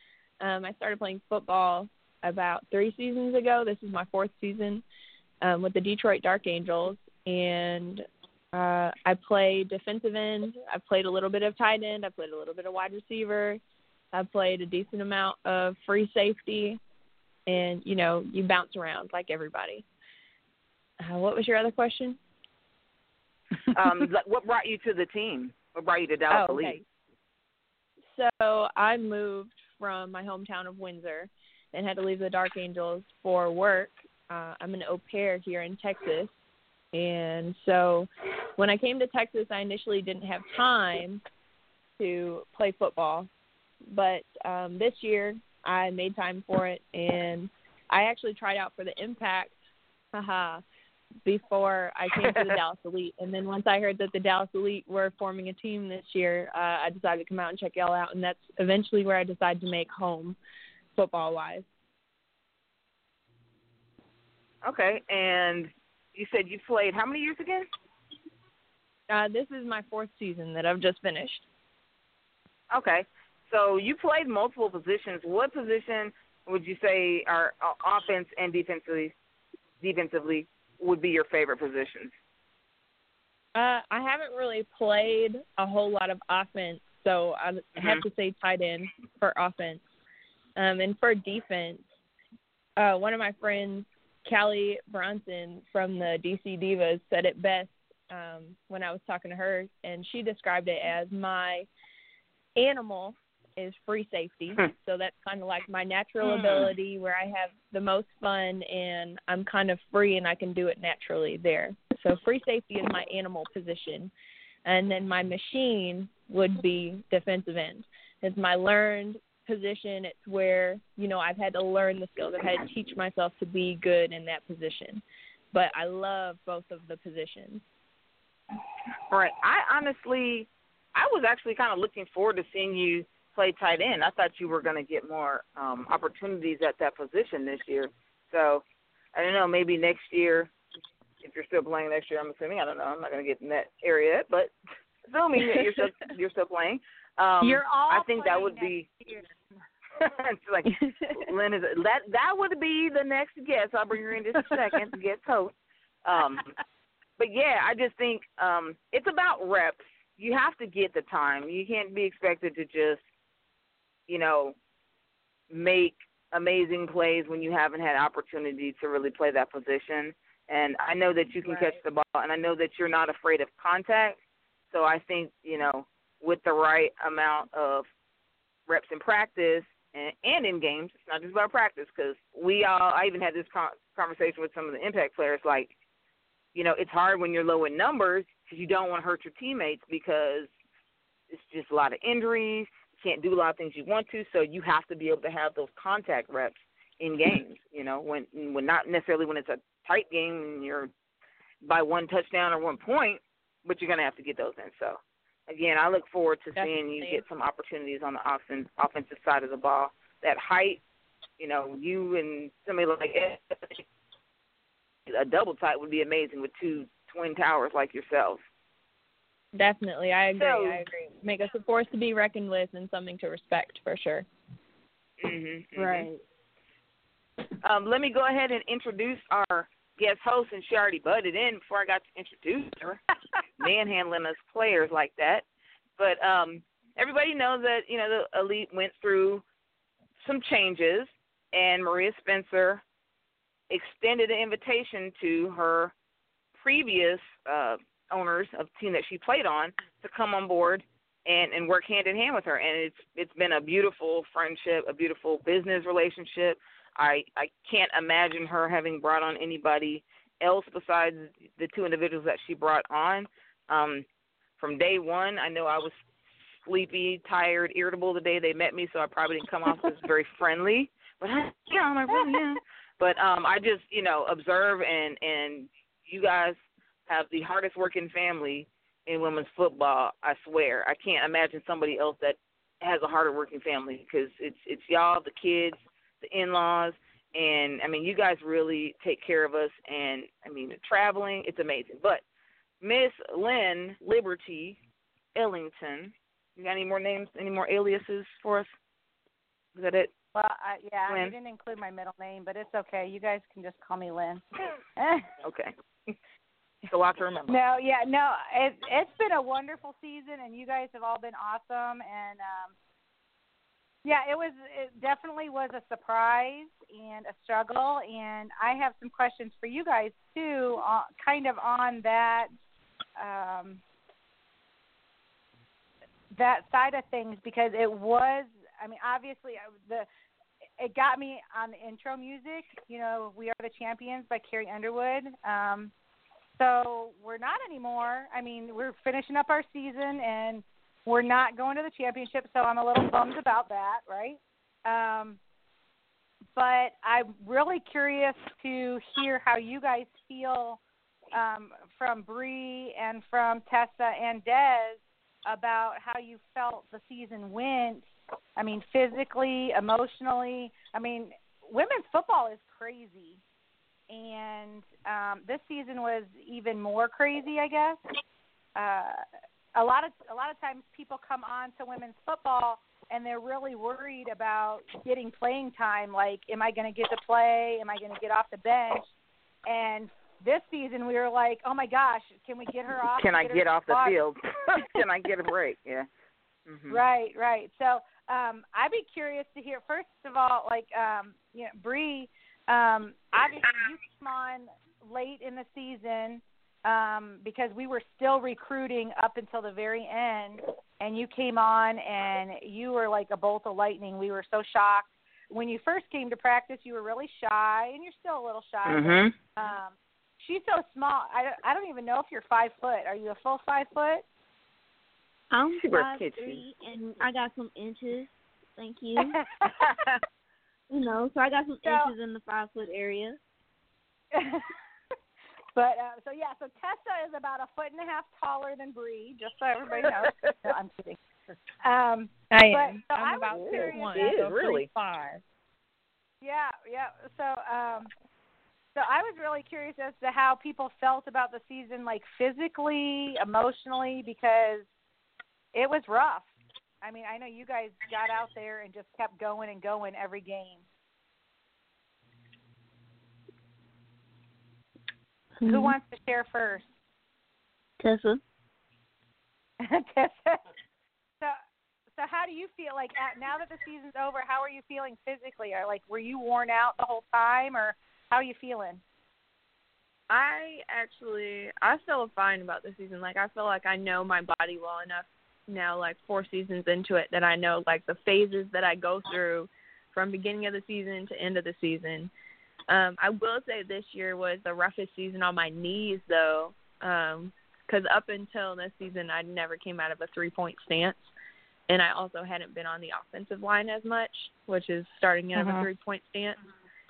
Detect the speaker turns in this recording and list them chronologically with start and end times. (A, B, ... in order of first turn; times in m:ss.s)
0:00.4-0:04.8 A
0:05.4-0:13.6 A
0:14.1-0:16.8 A
0:17.5-0:19.8 A
0:21.0-0:22.2 A
0:23.7-0:26.8 B
0:26.3-0:26.8 C
0:28.1-0:36.4 A
0:36.9-0:41.2 A
0:42.0-0:43.3 A
0:43.9-0:49.6 A
0:50.1-0:50.6 A
0:51.2-1:00.4 A
1:00.9-1:01.7 A
1:04.6-1:07.7 B
1:09.1-1:11.4 A
1:12.7-1:19.1 B
1:19.8-1:22.1 B
1:23.6-1:29.8 A
1:27.8-1:28.0 B
1:30.6-1:31.8 A
1:32.8-1:41.7 A
1:42.6-1:54.1 A
1:46.2-1:46.7 B
1:54.6-2:07.6 A
2:09.1-2:20.5 B
2:21.2-2:24.5 B
2:25.1-2:28.9 B
2:27.4-2:29.4 C
2:30.0-2:35.5 B
2:36.0-2:36.5 B
2:37.2-2:43.0 B
2:44.1-2:44.6 B
2:45.5-2:54.2 B
2:51.4-2:51.8 C
2:54.7-2:57.9 B
2:58.7-3:05.7 B
3:06.5-3:10.5 B
3:11.3-3:20.9 B
3:21.6-3:30.8 B
3:26.6-3:27.2 C
3:31.4-3:33.8 B
3:35.1-3:38.4 B
3:39.5-3:44.3 A
3:40.3-3:40.8 B
3:45.2-3:46.1 B
3:45.8-3:46.2 D
3:47.6-3:53.0 B
3:53.6-3:55.4 B
3:56.0-3:59.4 B
4:00.2-4:02.8 B
4:03.7-4:05.9 B
4:06.6-4:24.1 B
4:24.6-4:36.6 B
4:37.1-4:52.2 B
4:52.8-4:54.8 B
4:55.4-4:58.7 B
4:59.8-5:00.1 B
5:00.3-5:04.4 C
5:01.1-5:01.3 B
5:05.0-5:05.3 C
5:05.4-5:06.2 B
5:06.9-5:07.6 B
5:07.5-5:12.7 C
5:14.0-5:22.5 C
5:23.2-5:23.8 C
5:26.3-5:30.1 C
5:30.8-5:35.9 C
5:36.6-5:45.4 C
5:46.6-5:50.8 C
5:51.3-6:03.4 C
6:04.1-6:08.0 C
6:08.8-6:09.2 C
6:09.8-6:19.1 C
6:19.7-6:24.2 C
6:23.2-6:26.1 B
6:26.7-6:27.0 B
6:26.9-6:54.2 C
6:48.9-6:49.4 B
6:55.5-6:59.4 D
6:55.8-6:56.6 B
6:59.2-6:59.5 C
7:00.9-7:03.4 D
7:01.8-7:02.1 C
7:04.3-7:04.7 C
7:05.8-7:11.2 C
7:10.0-7:10.6 B
7:11.8-7:14.3 C
7:12.5-7:15.4 A
7:13.5-7:14.9 B
7:16.4-7:18.1 C
7:19.0-7:24.9 C
7:25.7-7:26.5 C
7:27.0-7:30.8 C
7:35.6-7:36.0 D
7:35.6-7:36.9 C
7:38.0-7:38.4 D
7:39.8-7:40.6 C
7:42.2-7:49.0 C
7:50.3-8:02.3 A
8:02.9-8:11.3 A
8:11.9-8:16.6 A
8:15.6-8:15.9 C